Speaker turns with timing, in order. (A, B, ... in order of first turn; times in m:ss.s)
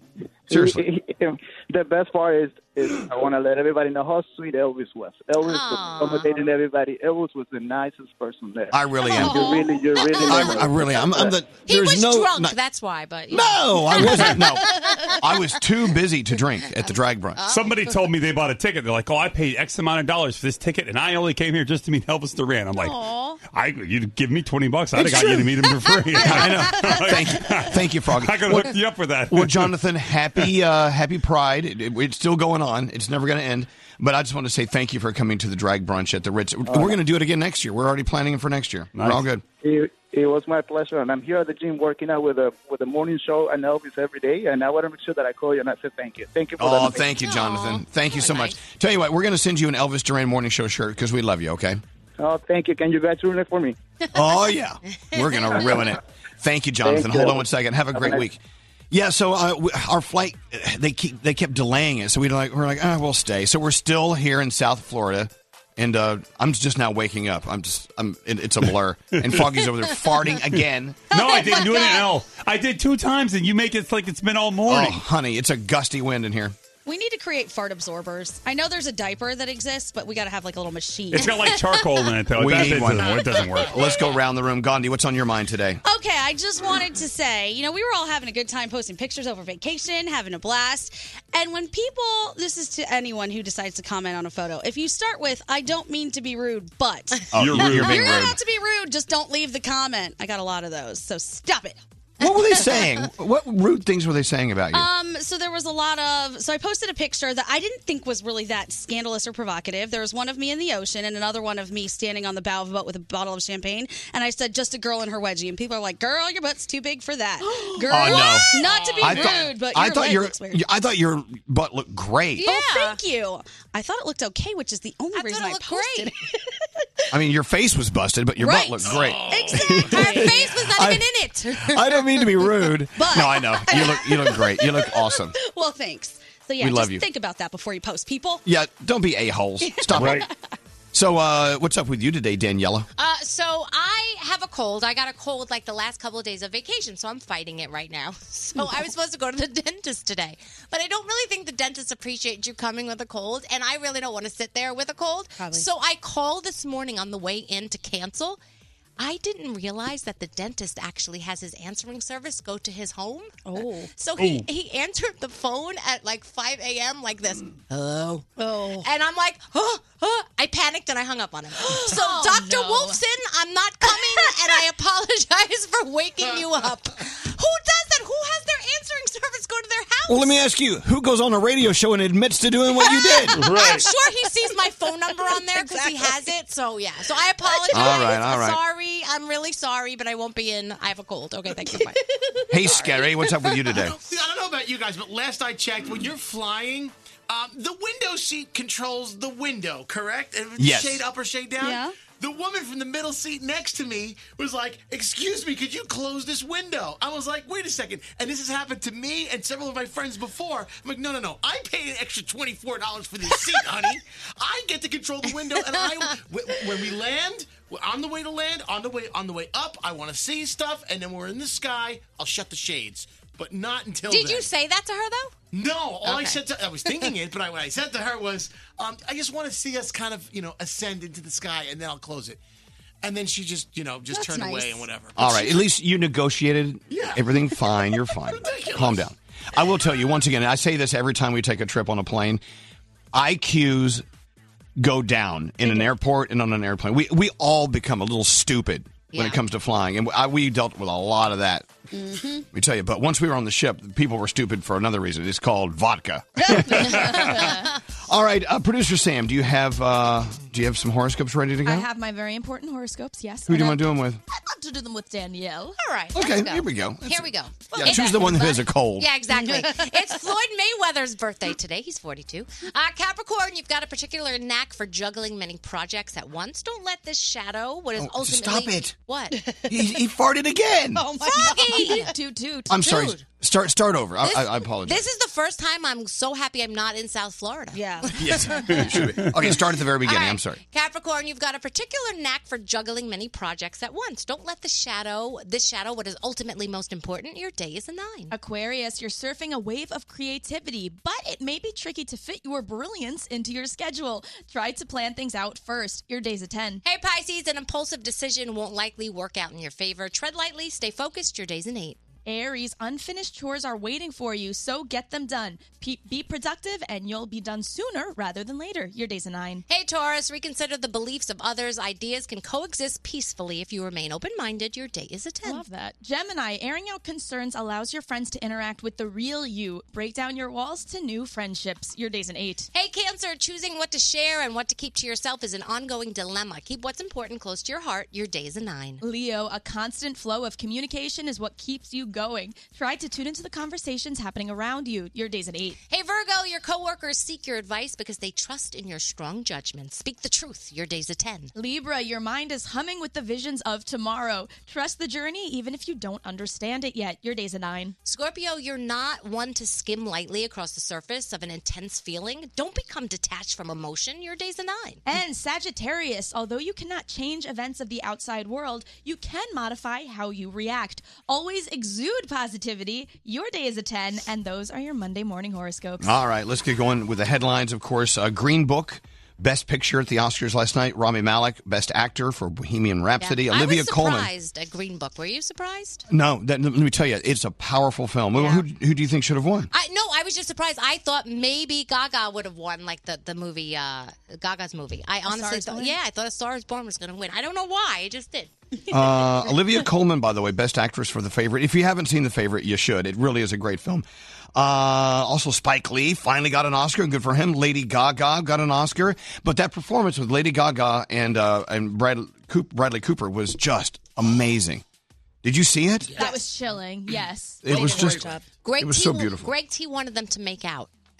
0:00.5-0:00.8 A
0:00.5-0:11.3 B
0:05.4-0:06.3 C
0:08.7-0:09.5 A
0:09.2-0:09.6 D
0:09.2-0:09.6 C
0:10.2-0:10.7 C
0:10.3-0:12.5 A
0:11.6-0:15.2 C
0:13.3-0:17.4 A
0:17.4-0:18.0 C
0:17.4-0:23.0 E
0:22.8-0:23.4 D
0:23.5-0:29.7 E
0:25.0-0:25.4 A
0:25.2-0:27.1 D
0:26.2-0:28.8 A
0:29.3-0:39.4 A
0:39.0-0:39.2 E
0:39.6-0:47.0 B
0:46.6-0:51.8 A
0:47.2-0:48.6 C
0:52.2-0:53.8 B
0:54.1-0:58.4 A
0:56.8-0:58.2 B
0:58.9-1:11.2 A
1:11.1-1:15.0 E
1:11.5-1:12.0 D
1:14.7-1:16.5 A
1:16.8-1:21.7 D
1:21.1-1:23.8 E
1:22.4-1:25.8 A
1:25.8-1:41.8 D
1:37.3-1:38.4 A
1:37.3-1:38.2 E
1:42.2-1:44.9 A
1:44.7-2:00.6 D
1:57.9-2:02.4 A
1:58.9-1:59.4 F
2:02.4-2:03.0 C
2:02.4-2:06.5 D
2:05.1-2:06.1 C
2:07.1-2:11.1 A
2:08.4-2:10.4 D
2:08.9-2:09.5 F
2:09.5-2:11.9 C
2:11.6-2:15.3 A
2:12.9-2:18.4 D
2:16.6-2:17.0 A
2:18.4-2:20.3 A
2:19.6-2:20.3 D
2:20.0-2:20.2 E
2:20.9-2:22.9 A
2:23.0-2:38.4 C
2:28.6-2:28.9 D
2:35.4-2:35.7 D
2:39.0-2:43.4 C
2:43.5-2:43.9 D
2:43.9-2:48.3 C
2:44.2-2:44.4 E
2:48.4-2:48.9 D
2:48.8-3:00.4 C
2:51.6-2:52.0 D
2:51.8-2:53.0 G
2:53.9-2:54.2 D
3:00.1-3:03.5 A
3:03.4-3:03.8 E
3:03.4-3:12.0 C
3:05.4-3:06.2 D
3:07.5-3:08.0 D
3:07.7-3:08.6 A
3:11.7-3:13.3 D
3:12.5-3:14.0 A
3:13.7-3:44.5 F
3:20.6-3:21.0 A
3:21.6-3:22.0 D
3:44.1-3:45.3 C
3:45.5-3:52.4 F
3:46.0-3:46.4 C
3:53.0-3:55.6 F
3:54.1-3:54.8 D
3:55.1-4:02.4 A
3:56.9-3:57.2 F
3:57.8-3:59.1 F
4:03.1-4:04.0 A
4:04.8-4:11.7 A
4:09.1-4:09.4 C
4:11.9-4:12.4 D
4:12.5-4:17.5 A
4:16.5-4:17.4 D
4:16.9-4:17.5 C
4:18.1-4:21.9 A
4:21.6-4:25.8 G
4:23.5-4:24.2 A
4:25.8-4:39.4 C
4:26.1-4:29.1 A
4:29.3-4:30.2 D
4:38.0-4:38.9 A
4:39.3-4:39.6 D
4:39.7-4:41.0 A
4:40.9-4:42.1 D
4:41.2-4:42.1 C
4:41.5-4:42.8 G
4:42.7-4:45.0 A
4:42.7-4:43.2 C
4:44.2-4:48.4 C
4:47.7-4:48.1 D
4:48.1-4:50.6 A
4:48.9-4:49.3 E
4:50.0-4:58.3 C
4:58.3-5:06.8 G
5:06.8-5:12.0 C
5:12.2-5:19.6 G
5:19.7-5:25.6 C
5:25.4-5:32.7 G
5:32.7-5:39.0 C
5:39.0-5:45.8 G
5:45.9-5:51.5 C
5:51.5-5:58.0 G
5:58.0-6:05.0 C
6:05.0-6:16.1 G
6:16.0-6:24.3 A
6:23.2-6:26.0 C
6:26.1-6:29.7 A
6:29.7-6:38.5 C
6:35.3-6:36.0 G
6:38.9-6:54.8 A
6:55.4-6:56.2 A
6:56.2-6:58.0 G
6:57.6-6:59.5 A
6:57.7-6:58.4 D
6:57.7-6:58.2 F
6:58.6-7:00.9 C